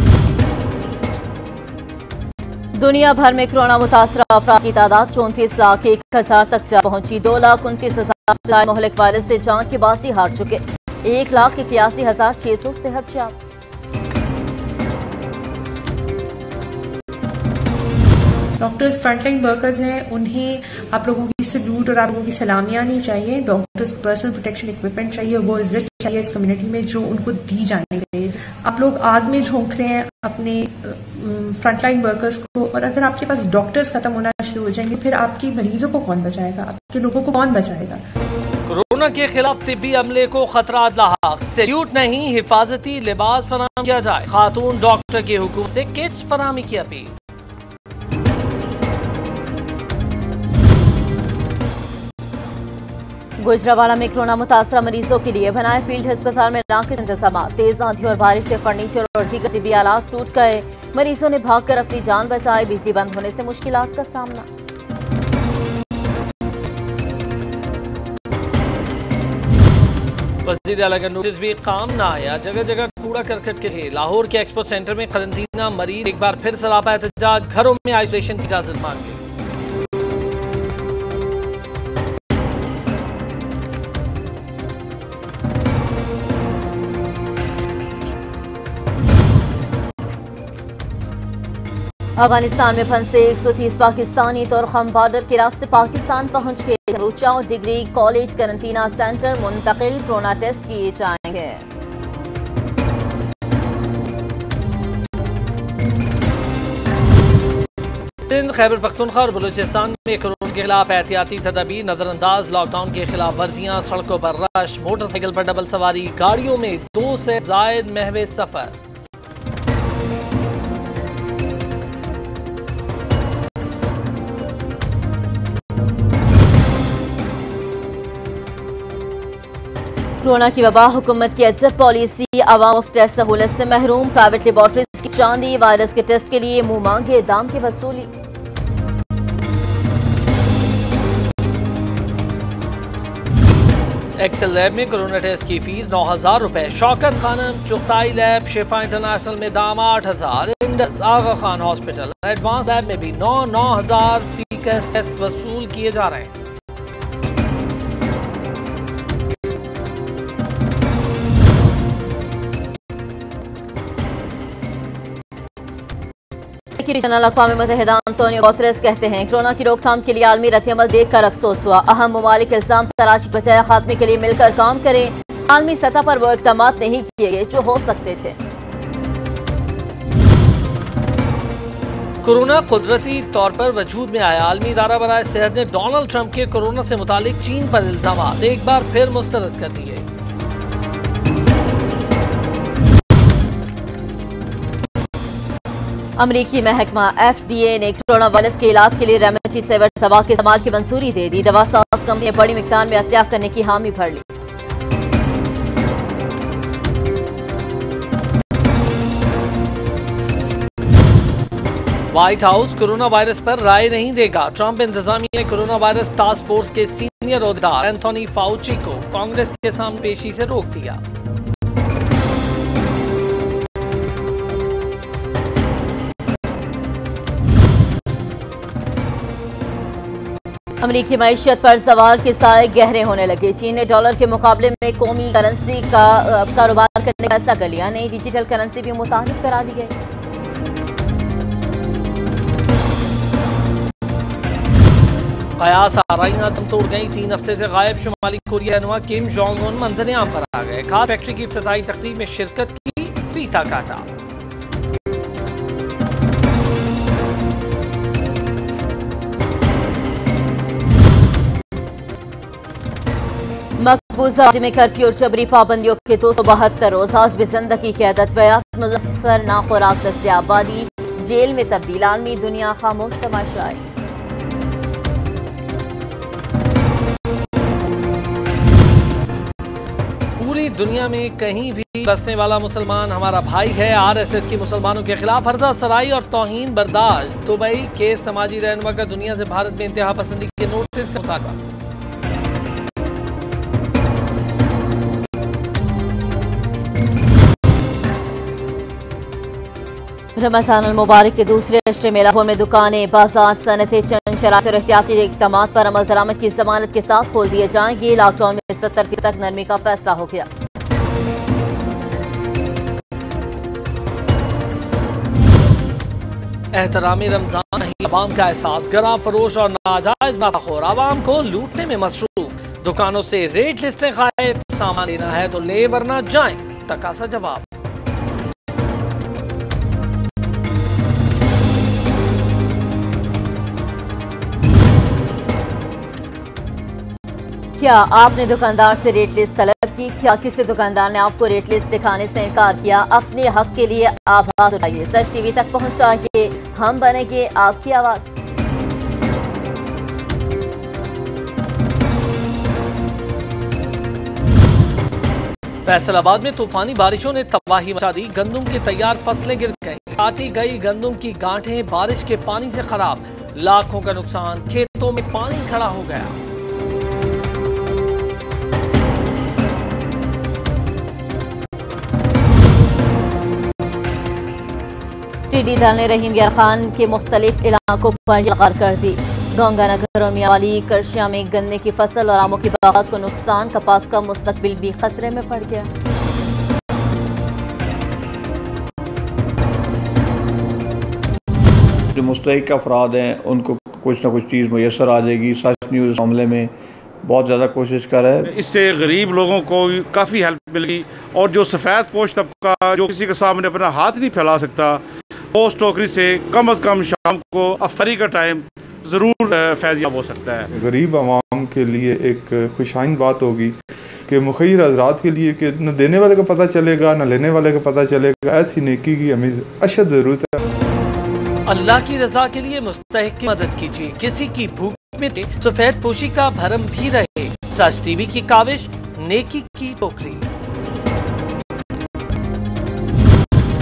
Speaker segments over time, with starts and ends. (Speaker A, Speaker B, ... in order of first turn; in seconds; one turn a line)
Speaker A: 2.8-13.3
Speaker B: 18.6-38.0
Speaker C: 38.7-47.1
Speaker A: 53.4-64.5
Speaker C: 70.4-79.2
Speaker A: 92.2-101.6
Speaker C: 108.2-118.8
Speaker A: 130.2-138.1
Speaker C: 144.2-156.3
Speaker A: 166.7-178.3
Speaker C: 182.2-190.0
Speaker A: 196.2-204.2
Speaker C: 212.1-221.0
Speaker A: 230.8-239.9
Speaker C: 245.6-254.1
Speaker A: 263.8-273.8
Speaker C: 280.4-291.6
Speaker A: 300.4-310.5
Speaker C: 316.7-327.6
Speaker A: 337.8-348.3
Speaker C: 355.8-366.4
Speaker A: 375.5-385.9
Speaker D: 392.1-398.5
Speaker E: 398.4-405.0
Speaker E: 405.6-410.6
Speaker F: 410.8-413.8
Speaker F: 414.3-420.6
Speaker C: 421.6-430.4